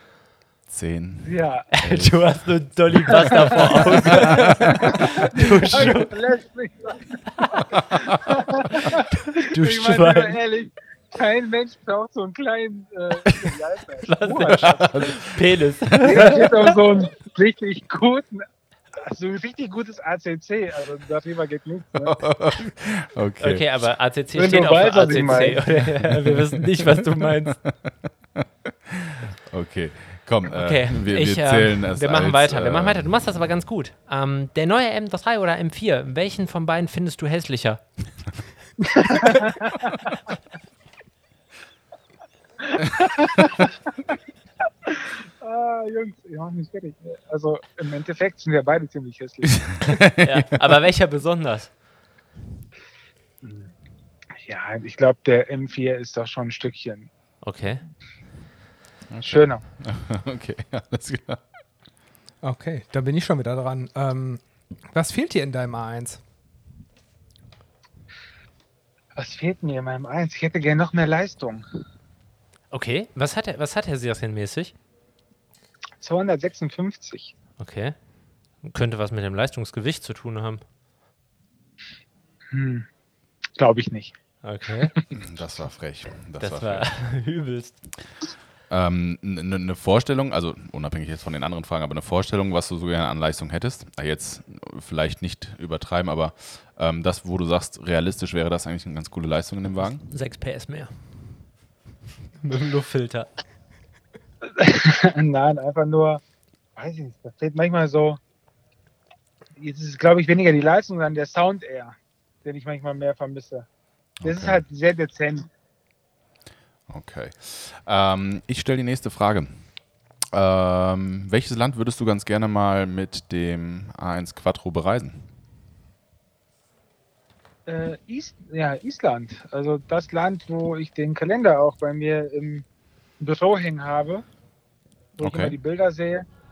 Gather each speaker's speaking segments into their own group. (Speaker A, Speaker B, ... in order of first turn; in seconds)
Speaker A: 0.7-2.3, 3.4-5.1, 7.8-8.2, 14.5-15.4, 15.9-16.5, 22.0-23.7, 27.6-27.9, 28.9-33.1, 49.5-50.4, 59.1-61.4, 85.1-86.9, 88.7-100.1, 114.2-114.6, 116.9-119.6, 120.3-125.3, 135.2-135.6
Speaker B: 1.2-1.7, 3.1-9.1, 9.6-15.2, 16.0-18.4, 19.0-22.2, 24.4-25.6, 39.0-40.1, 42.6-43.7, 44.9-49.9, 53.4-53.7, 54.4-57.1, 59.3-59.6, 69.2-71.6, 76.0-77.3, 82.5-82.9, 83.6-84.2, 104.5-106.2, 106.8-108.2, 109.6-113.7, 114.2-115.5, 127.7-132.7, 133.2-134.2, 135.2-136.3
Speaker C: 1.7-6.1, 8.8-10.4, 14.0-16.7, 23.4-27.6, 30.5-37.8, 50.2-51.7, 57.4-57.8, 72.7-74.8, 77.6-78.0, 78.6-80.6, 84.4-84.9, 86.4-87.8, 100.1-100.9, 102.4-103.3
Speaker D: 62.4-66.2